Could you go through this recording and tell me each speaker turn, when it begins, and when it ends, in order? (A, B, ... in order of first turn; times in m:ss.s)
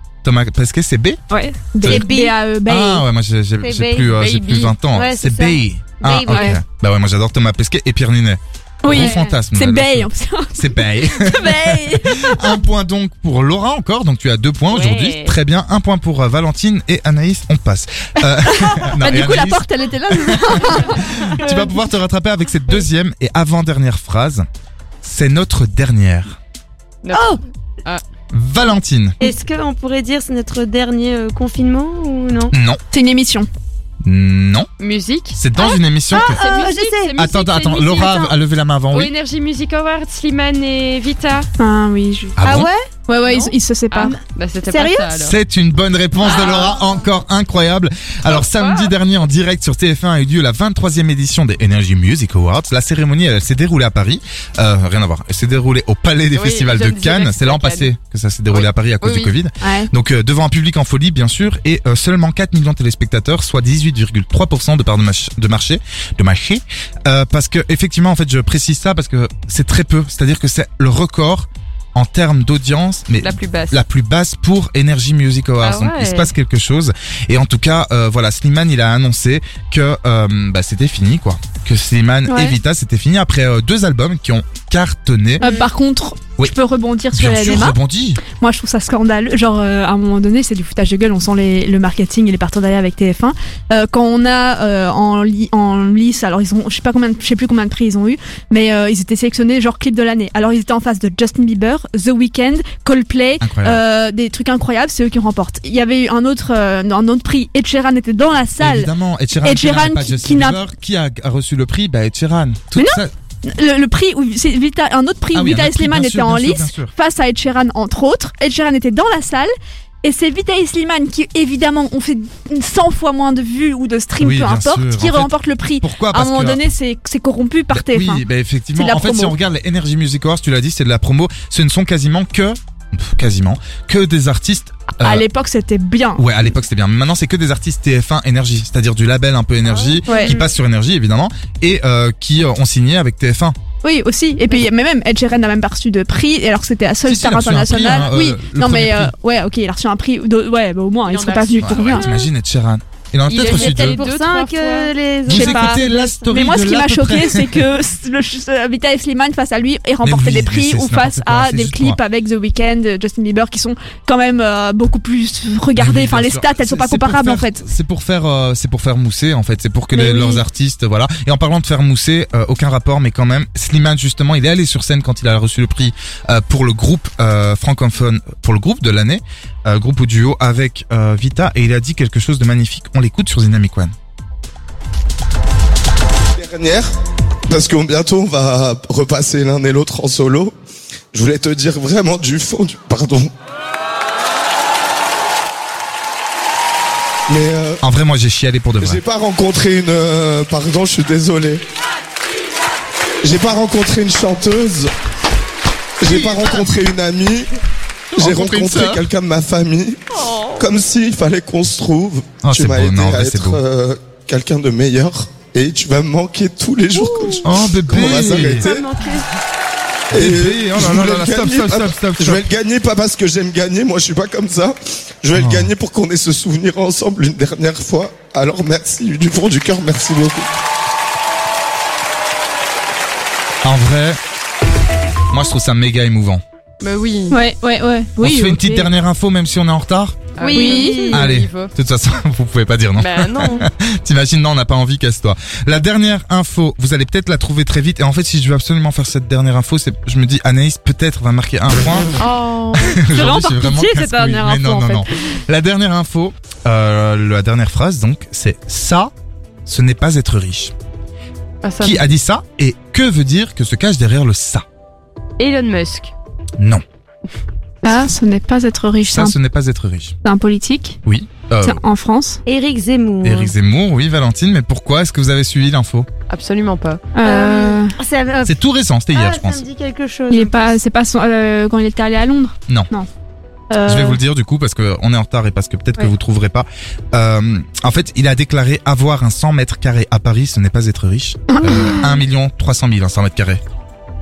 0:00.2-0:01.2 A
0:01.3-0:03.0 B
0:01.8-0:02.1 A
0:01.9-0:02.3 C
0:02.6-0:24.4 A
0:03.6-0:04.0 C
0:04.2-0:04.8 D
0:04.9-0:06.4 C
0:06.3-0:06.6 B
0:08.8-0:12.6 B
0:08.9-0:09.2 D
0:18.4-0:21.7 B
0:25.0-0:26.4 A
0:27.0-0:28.0 D
0:28.3-0:29.2 A
0:29.2-0:32.5 C
0:32.5-0:32.8 A
0:32.9-0:33.5 B
0:34.0-0:34.7 A
0:34.8-0:35.4 D
0:35.3-0:36.4 A
0:36.1-0:38.4 D
0:36.1-0:37.1 C
0:37.2-0:39.1 A
0:38.9-0:41.5 D
0:41.6-0:42.4 B
0:42.4-0:42.7 A
0:42.5-0:42.9 C
0:43.1-0:44.2 B
0:43.2-0:45.4 D
0:44.7-0:45.0 C
0:45.2-1:25.5 A
0:46.2-0:47.0 D
0:48.2-0:48.9 D
0:56.3-0:57.9 D
0:58.5-0:59.3 D
0:59.6-0:59.9 B
1:13.2-1:13.8 D
1:15.6-1:16.3 D
1:22.3-1:22.5 B
1:25.4-1:27.8 B
1:27.1-1:28.2 A
1:28.3-1:48.9 B
1:43.4-1:43.8 A
1:48.6-1:53.1 A
1:49.4-1:50.6 B
1:52.7-1:59.5 B
1:55.3-1:56.9 A
2:00.0-2:09.4 B
2:04.2-2:06.6 A
2:07.7-2:15.3 A
2:15.0-2:16.2 B
2:16.2-2:23.6 A
2:20.1-2:20.4 B
2:23.8-2:32.1 B
2:27.0-2:29.1 A
2:31.1-2:32.2 D
2:31.6-2:34.0 A
2:33.3-2:35.8 D
2:33.5-2:35.3 C
2:35.2-2:37.7 A
2:35.3-2:47.6 B
2:35.9-2:36.3 C
2:40.0-2:42.0 A
2:45.8-3:03.9 A
2:49.9-2:50.4 B
3:06.3-3:06.9 E
3:07.5-3:10.5 E
3:11.1-3:13.3 E
3:17.3-3:17.8 E
3:17.8-3:19.0 A
3:18.8-3:21.6 E
3:23.2-3:24.9 E
3:26.0-3:27.5 E
3:26.0-3:26.7 A
3:28.1-3:29.1 A
3:28.2-3:39.0 E
3:30.3-3:30.6 C
3:32.4-3:33.6 A
3:37.0-3:37.4 C
3:37.4-3:38.7 A
3:37.9-3:39.3 C
3:40.1-3:42.5 A
3:40.1-3:50.5 E
3:45.3-3:45.7 A
3:53.6-3:54.2 A
3:55.3-3:56.4 A
3:56.8-3:57.4 D
3:57.3-3:58.9 B
3:58.2-4:00.2 A
4:00.4-4:01.7 D
4:00.4-4:01.1 C
4:00.5-4:01.0 B
4:01.1-4:12.2 A
4:03.0-4:03.7 D
4:12.2-4:13.0 D
4:12.7-4:19.1 A
4:13.0-4:15.3 B
4:19.6-4:20.7 A
4:21.6-4:22.0 D
4:21.8-4:24.6 A
4:25.4-4:26.1 D
4:26.6-4:26.8 A
4:27.8-4:29.4 B
4:29.0-4:30.1 A
4:30.2-4:31.0 B
4:31.0-4:31.8 A
4:31.6-4:32.4 B
4:32.5-4:33.4 C
4:33.2-4:36.1 A
4:36.3-4:37.0 D
4:37.1-4:38.0 B
4:37.2-4:38.5 C
4:38.4-4:39.6 A
4:39.1-4:40.6 C
4:40.3-4:43.1 B
4:43.7-4:44.2 C
4:43.8-4:53.6 A
4:51.5-4:52.2 B